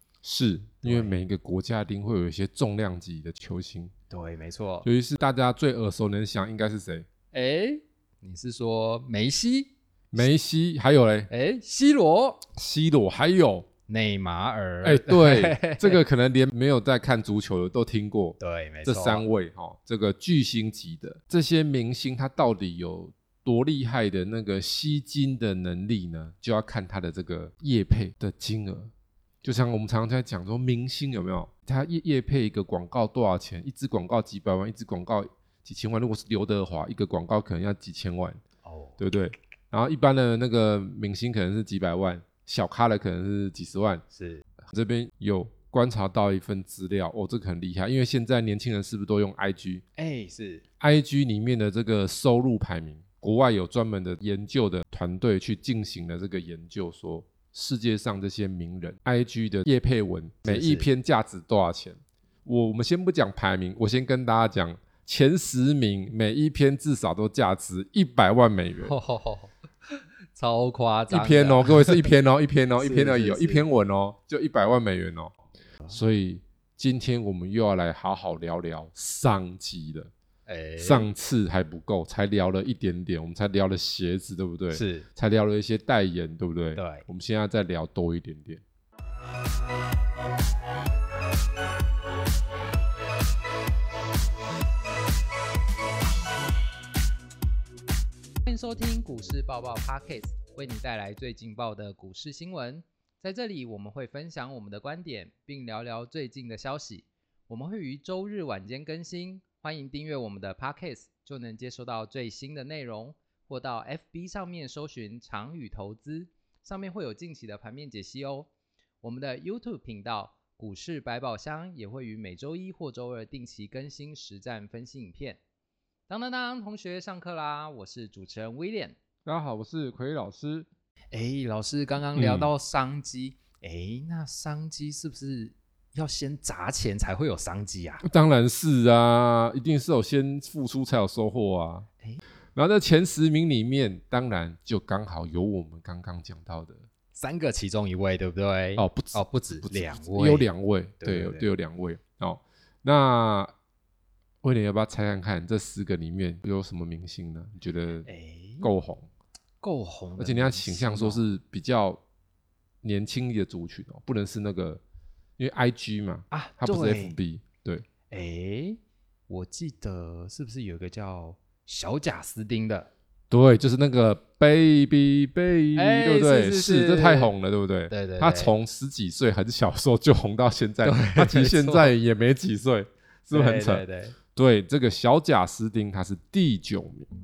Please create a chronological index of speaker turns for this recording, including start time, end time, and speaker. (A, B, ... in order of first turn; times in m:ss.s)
0:00.2-0:03.9 A
0:00.8-0:01.2 B
0:04.1-0:04.9 B
0:04.8-0:07.1 A
0:07.3-0:10.2 B
0:10.1-0:11.3 A
0:11.3-0:12.4 B
0:12.6-0:13.7 A
0:13.9-0:16.0 B
0:14.8-0:28.9 A
0:18.4-0:19.3 B
0:29.4-0:38.4 A
0:38.6-0:39.0 B
0:39.0-0:44.0 A
0:44.1-0:44.4 B
0:44.6-0:49.8 A
0:50.0-0:50.6 B
0:50.8-1:09.0 A
1:00.4-1:00.9 B
1:08.8-1:12.1 B
1:11.1-1:15.3 A
1:12.8-1:13.6 B
1:15.9-1:20.1 A
1:20.5-1:21.1 B
1:20.8-1:28.6 A
1:24.7-1:25.1 B
1:26.8-1:27.1 B
1:38.5-1:58.5 B
1:59.0-2:05.4 B
2:06.1-2:09.0 B
2:09.2-2:10.7 A
2:11.1-2:18.0 B
2:12.2-2:12.5 A
2:18.0-2:21.9 A
2:22.6-2:26.8 A
2:27.2-2:30.5 B
2:28.8-2:33.5 A
2:31.0-2:31.5 B
2:34.4-2:38.1 A
2:38.0-2:38.7 B
2:38.6-2:39.1 A
2:39.6-2:41.3 B
2:40.2-2:42.0 A
2:42.8-2:44.8 A
2:45.4-2:47.9 A
2:46.3-2:47.2 B
2:48.1-2:52.9 B
2:53.3-3:03.8 A
2:55.8-2:57.3 B
2:57.9-2:58.5 B
3:00.8-3:01.9 B
3:03.3-3:04.2 B
3:04.4-3:07.1 A